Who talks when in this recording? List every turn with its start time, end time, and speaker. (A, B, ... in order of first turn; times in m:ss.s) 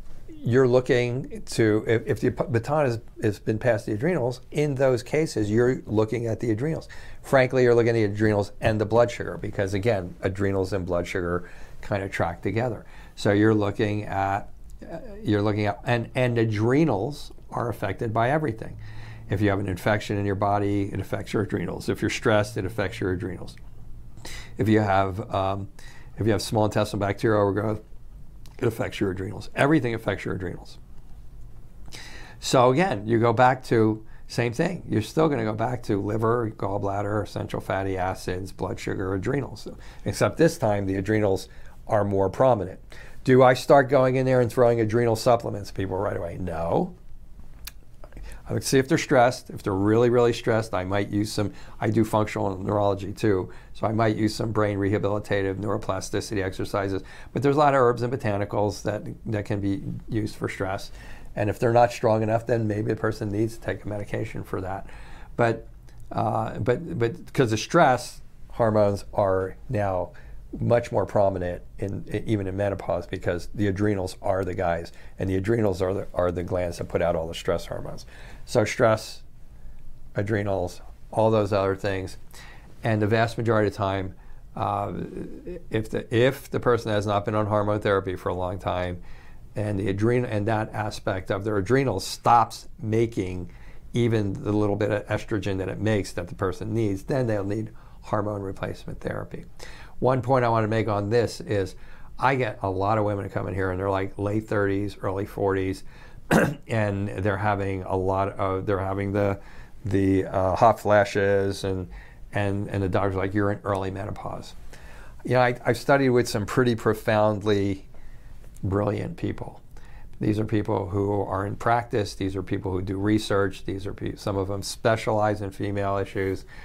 0:00.3-0:18.8 A
0:19.3-0:23.6 A
0:24.6-0:27.8 A
0:28.6-0:30.8 A
0:32.4-0:46.9 A
0:48.5-1:19.2 A
1:20.1-1:22.2 A
1:22.8-1:29.0 A
1:29.6-1:39.5 A
1:40.0-1:54.6 A
1:55.2-1:57.9 A
1:58.6-1:59.6 A
2:00.2-2:06.4 A